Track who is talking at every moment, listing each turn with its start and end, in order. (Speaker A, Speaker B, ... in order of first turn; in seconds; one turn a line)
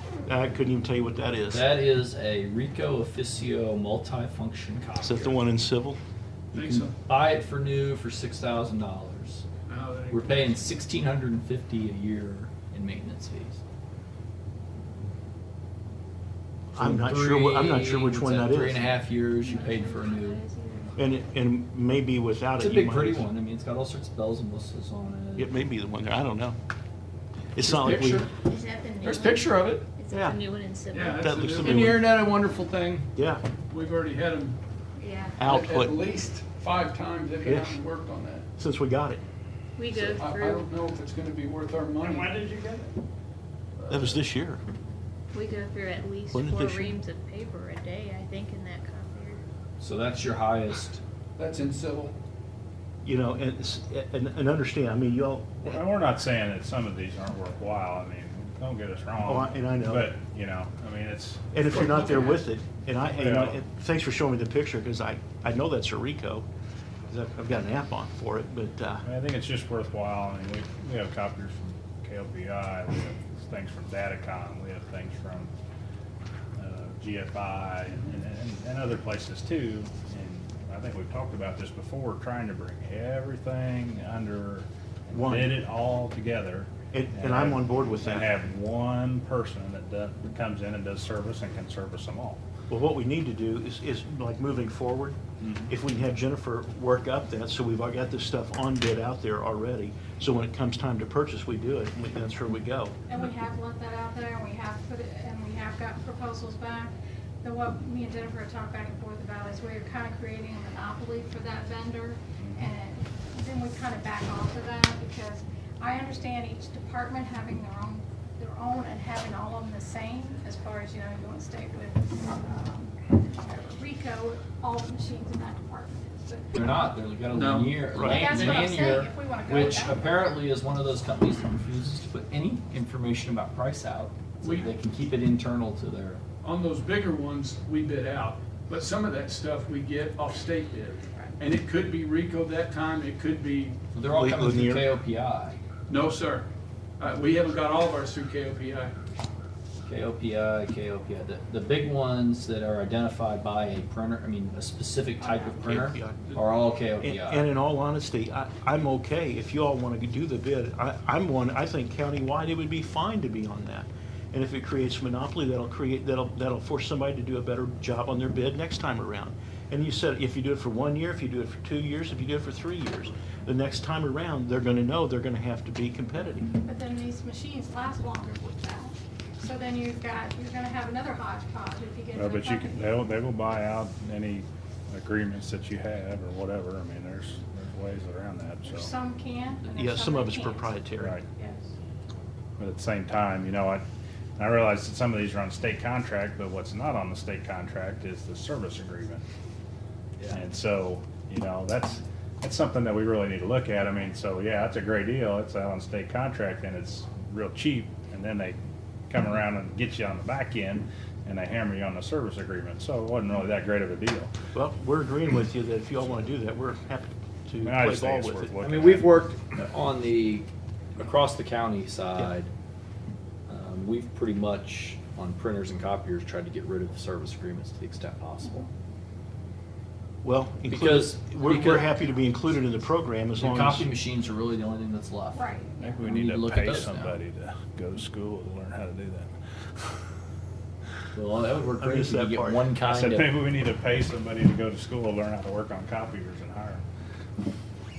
Speaker A: 0.2-1.8
Speaker B: 1.5-5.4
Speaker A: 5.0-6.0
Speaker B: 6.5-9.4
Speaker C: 6.5-6.9
Speaker C: 9.7-10.6
Speaker B: 10.1-13.6
Speaker A: 16.7-18.9
Speaker B: 16.8-20.4
Speaker D: 19.5-21.0
Speaker A: 21.0-23.3
Speaker B: 22.6-25.5
Speaker A: 25.4-26.6
Speaker A: 27.5-28.3
Speaker B: 27.6-28.3
Speaker D: 28.4-31.7
Speaker B: 29.0-29.8
Speaker A: 30.1-30.4
Speaker C: 30.9-33.0
Speaker A: 31.1-32.1
Speaker B: 31.8-32.3
Speaker A: 33.1-33.4
Speaker C: 33.7-34.6
Speaker D: 35.0-35.5
Speaker A: 35.4-36.0
Speaker C: 35.4-38.5
Speaker A: 37.4-37.8
Speaker A: 38.6-39.2
Speaker D: 39.8-40.6
Speaker C: 39.9-42.9
Speaker C: 43.8-44.2
Speaker A: 43.9-44.6
Speaker D: 45.3-49.4
Speaker A: 46.3-47.0
Speaker B: 49.8-51.0
Speaker C: 51.4-52.1
Speaker A: 53.0-55.8
Speaker E: 55.6-62.3
Speaker A: 59.2-60.1
Speaker A: 61.5-66.5
Speaker E: 63.0-63.6
Speaker A: 67.1-69.0
Speaker E: 69.0-75.5
Speaker E: 76.6-92.4
Speaker A: 85.1-85.6
Speaker A: 86.9-88.3
Speaker A: 92.7-102.9
Speaker F: 103.1-126.8
Speaker E: 112.4-112.7
Speaker B: 126.5-136.2
Speaker C: 127.3-128.6
Speaker A: 127.9-128.6
Speaker F: 128.0-130.2
Speaker C: 134.4-134.7
Speaker C: 136.4-143.8
Speaker B: 143.9-145.6
Speaker A: 144.1-144.9
Speaker C: 145.9-146.5
Speaker C: 147.0-148.9
Speaker B: 149.8-157.5
Speaker F: 155.2-155.6
Speaker A: 155.6-156.2
Speaker A: 157.0-176.5
Speaker F: 176.6-183.0
Speaker E: 182.1-188.9
Speaker F: 188.6-191.7
Speaker A: 189.7-191.2
Speaker E: 191.0-191.2
Speaker E: 192.6-193.8
Speaker E: 194.4-199.2
Speaker E: 200.3-208.6
Speaker E: 209.1-214.3
Speaker A: 214.5-218.5
Speaker E: 217.6-219.2
Speaker B: 218.6-222.5
Speaker B: 223.5-228.7
Speaker A: 230.2-233.9
Speaker B: 230.7-232.0
Speaker B: 233.3-235.5
Speaker F: 235.3-236.2
Speaker E: 235.8-239.3
Speaker B: 236.0-237.2
Speaker B: 241.1-243.3
Speaker A: 241.8-242.7
Speaker E: 242.8-246.8